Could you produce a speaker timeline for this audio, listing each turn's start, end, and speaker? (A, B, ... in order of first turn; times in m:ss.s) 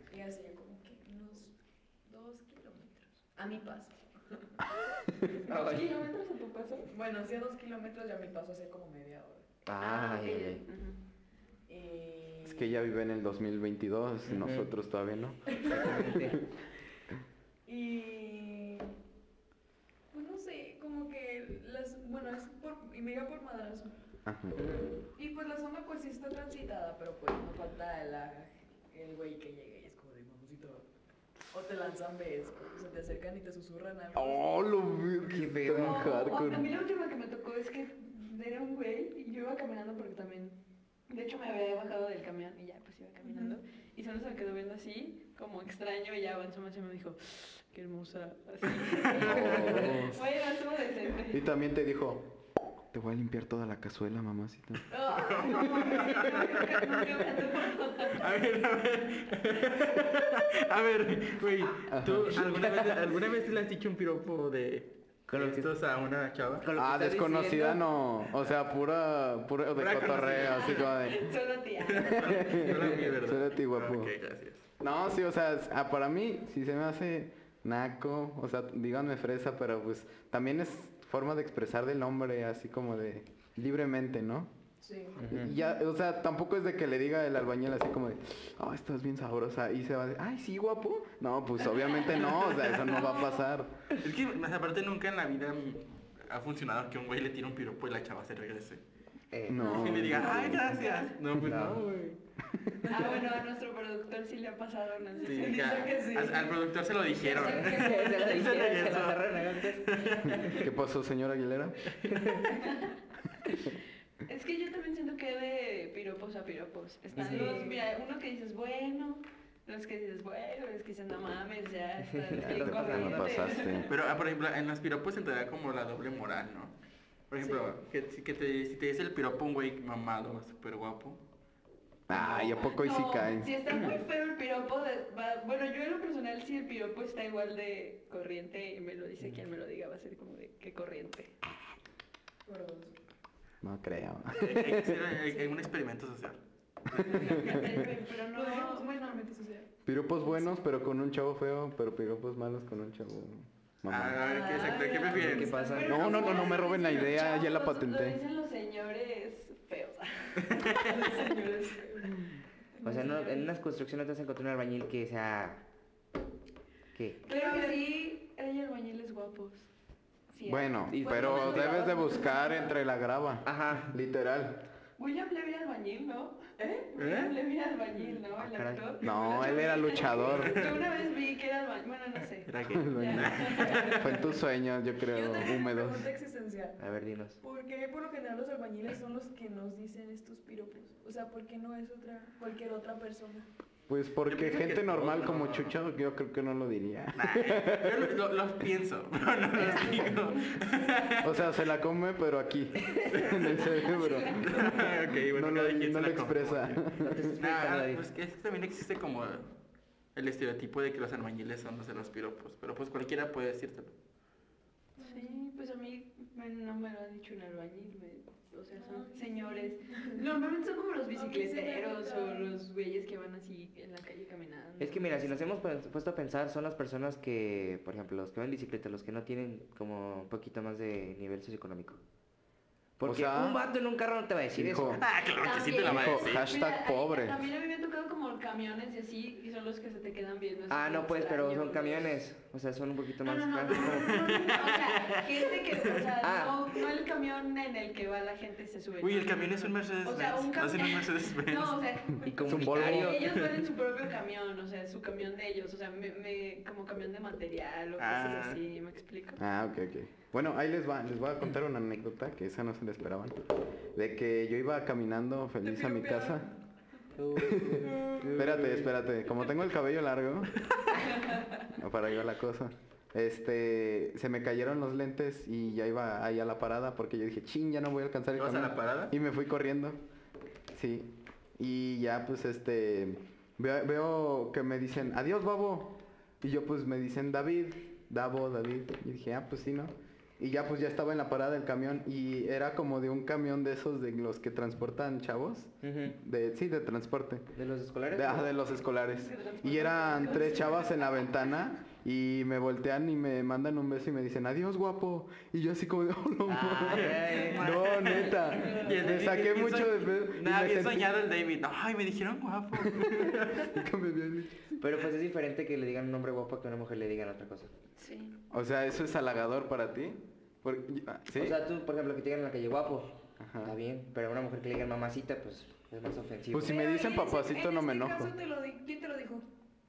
0:00.1-0:05.4 A
0:05.4-0:06.9 B
0:05.5-0:06.0 C
0:06.9-0:09.5 A
0:09.6-0:10.6 C
0:09.8-0:11.0 B
0:11.7-0:12.7 A
0:12.4-0:16.4 D
0:14.3-0:14.7 C
0:15.5-0:16.1 A
0:15.7-0:16.4 C
0:17.6-0:18.9 A
0:20.1-0:23.9 A
0:24.2-0:24.6 D
0:24.6-0:24.9 C
0:25.1-0:30.9 A
0:31.5-0:34.7 A
0:34.1-0:36.8 D
0:35.2-0:36.1 C
0:35.8-0:51.4 B
0:43.2-0:43.6 A
0:48.9-0:49.9 E
0:49.2-0:50.2 D
0:51.3-0:52.4 D
0:52.9-0:54.9 D
0:54.9-0:58.4 B
0:55.1-1:06.7 E
1:01.9-1:02.5 D
1:02.3-1:03.2 C
1:05.3-1:05.7 C
1:06.6-1:07.8 C
1:06.8-1:11.3 D
1:09.8-1:10.9 E
1:10.4-1:12.4 B
1:11.8-1:14.6 E
1:12.1-1:14.1 D
1:14.8-1:24.5 D
1:24.8-1:25.6 A
1:25.2-1:25.5 C
1:25.2-1:33.8 D
1:32.4-1:32.7 E
1:33.0-1:33.4 B
1:34.0-1:38.8 E
1:39.3-1:40.1 C
1:39.5-1:40.8 D
1:39.6-1:41.1 B
1:39.7-1:42.2 E
1:41.4-1:41.7 D
1:41.4-1:41.8 C
1:42.8-1:43.3 A
1:42.9-1:46.3 B
1:45.2-1:50.7 E
1:45.3-1:46.6 A
1:47.2-1:48.8 B
1:47.3-1:47.7 A
1:47.4-1:50.7 C
1:50.6-1:51.9 D
1:51.8-1:52.4 E
1:52.1-1:52.5 C
1:52.5-1:52.9 B
1:54.2-2:03.9 B
1:57.1-1:57.6 C
1:57.2-1:57.8 A
2:02.2-2:03.6 C
2:02.4-2:03.9 D
2:03.9-2:06.7 E
2:07.3-2:11.2 E
2:07.4-2:07.7 A
2:12.1-2:14.0 D
2:12.1-2:21.4 B
2:22.4-2:23.0 A
2:23.6-2:25.1 D
2:24.3-2:26.4 E
2:26.9-2:29.7 A
2:27.0-2:27.8 D
2:27.0-2:29.2 B
2:29.8-2:34.2 D
2:33.9-2:35.5 E
2:34.2-2:41.6 B
2:35.1-2:36.6 C
2:35.8-2:38.2 D
2:40.4-2:40.8 E
2:40.7-2:42.2 A
2:42.7-2:43.2 A
2:42.8-2:45.6 C
2:42.8-2:43.5 B
2:46.9-2:47.2 C
2:47.2-2:49.7 B
2:47.2-2:47.8 A
2:50.3-2:52.6 B
2:50.4-2:54.7 D
2:50.9-2:52.1 C
2:51.6-2:52.6 A
2:53.4-2:53.9 C
2:55.0-3:04.0 B
2:56.6-2:56.9 A
2:57.0-2:57.4 E
2:58.4-2:59.1 C
2:59.0-3:00.7 D
3:00.2-3:00.8 E
3:02.5-3:04.2 E
3:02.7-3:06.1 D
3:03.8-3:04.1 A
3:05.0-3:06.8 A
3:06.8-3:07.4 C
3:07.4-3:13.5 A
3:13.9-3:18.1 D
3:14.3-3:15.8 E
3:17.1-3:21.4 E
3:21.2-3:27.4 D
3:22.8-3:24.4 B
3:23.1-3:26.8 E
3:27.0-3:28.0 C
3:27.4-3:29.5 E
3:30.1-3:33.9 E
3:35.0-3:35.4 A
3:35.0-3:45.3 B
3:38.8-3:40.2 A
3:41.1-3:42.6 A
3:44.8-3:52.0 C
3:53.0-3:55.0 C
3:53.0-3:53.6 D
3:54.5-3:55.0 D
3:54.9-3:56.5 E
3:55.4-4:02.2 B
3:55.8-3:57.5 D
4:00.7-4:05.5 C
4:03.2-4:19.4 B
4:03.8-4:04.9 E
4:06.2-4:06.7 C
4:09.0-4:11.8 E
4:12.2-4:13.4 C
4:12.4-4:13.3 D
4:18.0-4:18.6 E
4:19.4-4:23.4 D
4:23.9-4:26.5 D
4:25.6-4:26.6 A
4:27.2-4:28.9 C
4:27.4-4:30.6 D
4:31.1-4:31.7 A
4:31.7-4:40.0 D
4:38.4-4:39.1 E
4:40.7-4:57.5 D
4:55.8-4:56.2 C
4:57.6-4:58.5 C
4:58.1-5:11.1 D
4:59.1-5:01.3 B
5:06.4-5:07.8 C
5:06.8-5:13.8 E
5:08.4-5:09.4 B
5:12.8-5:14.8 D
5:14.8-5:17.7 C
5:18.0-5:18.4 B
5:18.5-5:21.6 D
5:21.3-5:26.8 C
5:23.4-5:23.7 D
5:26.5-5:28.3 D
5:26.6-5:29.4 A